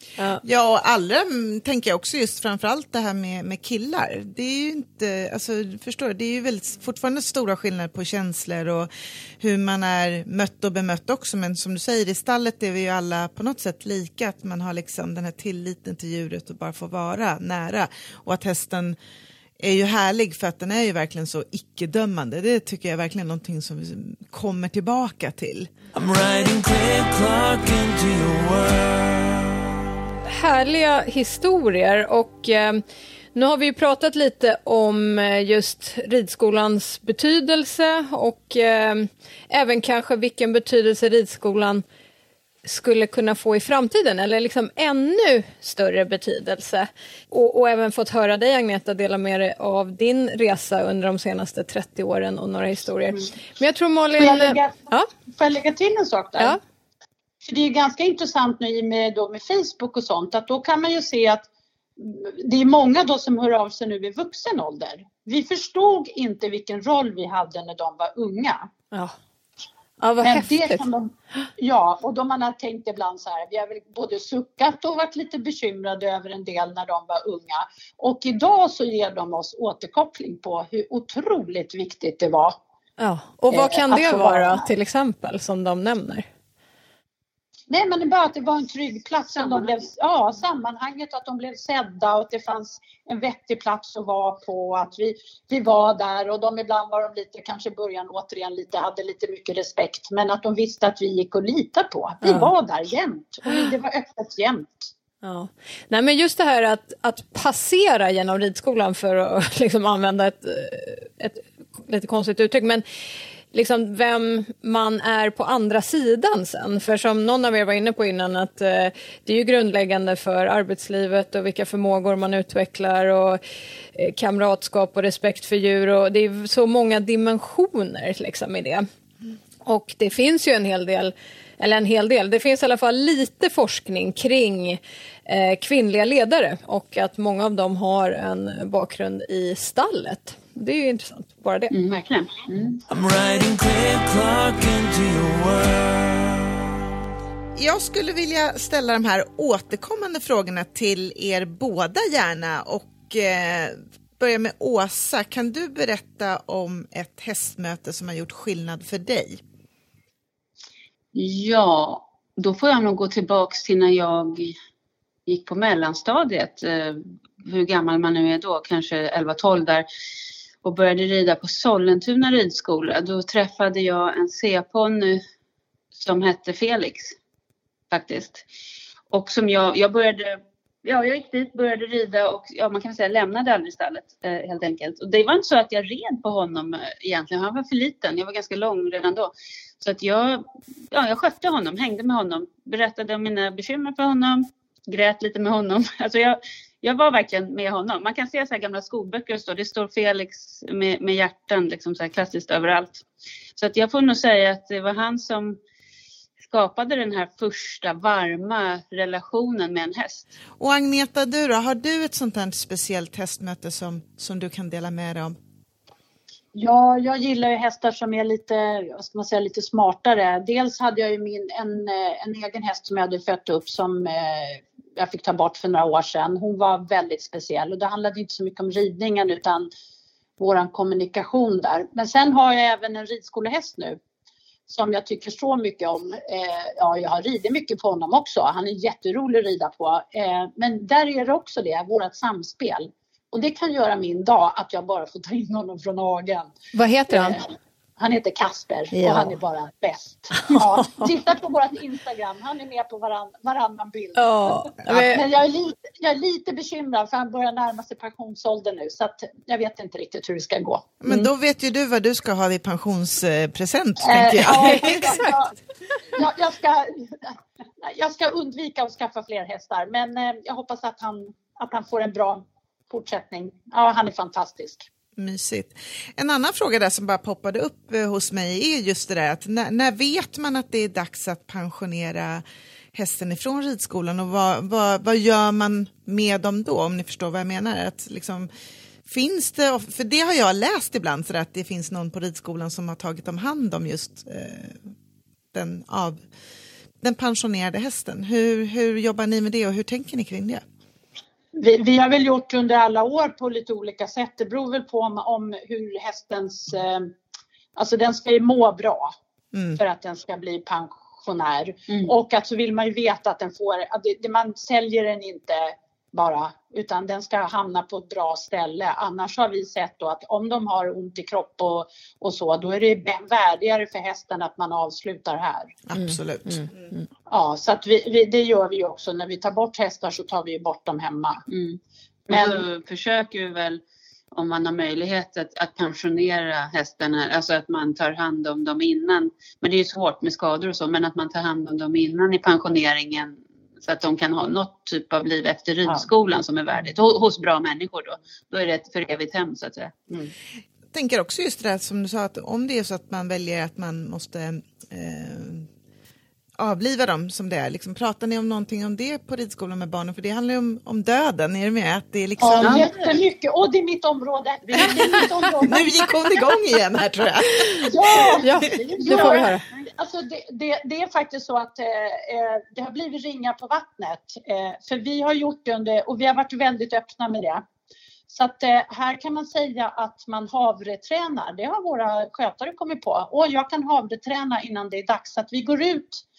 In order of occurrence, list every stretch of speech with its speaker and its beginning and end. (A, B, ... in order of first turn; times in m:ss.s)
0:00.4-0:08.9 A
0:09.4-0:19.0 A
0:19.6-0:25.7 A
0:25.9-0:29.7 B
0:30.3-0:32.8 C
0:33.4-0:41.8 C
0:42.6-0:55.1 C
0:54.2-0:54.8 D
0:55.3-0:56.6 D
0:57.4-1:08.7 D
1:10.0-1:10.8 C
1:10.2-1:22.6 D
1:23.0-1:26.3 C
1:23.5-1:24.6 D
1:27.7-1:44.9 D
1:42.2-1:42.5 C
1:45.2-1:52.8 C
1:53.5-2:03.4 C
2:04.0-2:08.9 C
2:09.6-2:21.7 C
2:21.7-2:22.8 E
2:22.9-2:26.7 B
2:27.6-2:39.4 A
2:41.2-2:44.6 E
2:45.3-2:49.9 E
2:50.6-2:55.2 E
2:56.0-2:57.2 E
2:57.9-2:58.4 E
2:59.1-3:23.0 E
3:23.6-3:25.6 E
3:26.4-3:30.3 E
3:30.6-3:35.4 A
3:36.6-3:49.7 D
3:50.4-3:54.0 D
3:54.7-4:06.5 D
4:06.7-4:07.4 C
4:07.1-4:07.5 D
4:08.0-4:20.9 D
4:08.9-4:09.3 C
4:10.4-4:11.1 C
4:14.2-4:15.2 C
4:21.0-4:25.2 A
4:24.0-4:25.5 D
4:24.5-4:25.4 C
4:26.1-4:34.9 D
4:35.2-4:48.5 A
4:49.1-4:54.9 A
4:55.5-4:56.2 A
4:57.0-5:00.6 A
5:01.5-5:07.1 D
5:07.8-5:09.2 D
5:09.5-5:09.8 A
5:09.8-5:25.8 D
5:25.9-5:26.9 A
5:26.0-5:27.0 C
5:27.3-5:31.4 D
5:31.5-5:31.8 E
5:32.3-5:32.6 D
5:32.3-5:50.2 E
5:50.9-5:55.7 A
5:56.6-6:02.9 A
6:02.4-6:06.0 D
6:02.6-6:03.1 E
6:04.7-6:05.1 E
6:05.6-6:08.6 A
6:07.8-6:17.6 D
6:08.4-6:09.6 C
6:09.0-6:09.5 E
6:18.3-6:26.2 D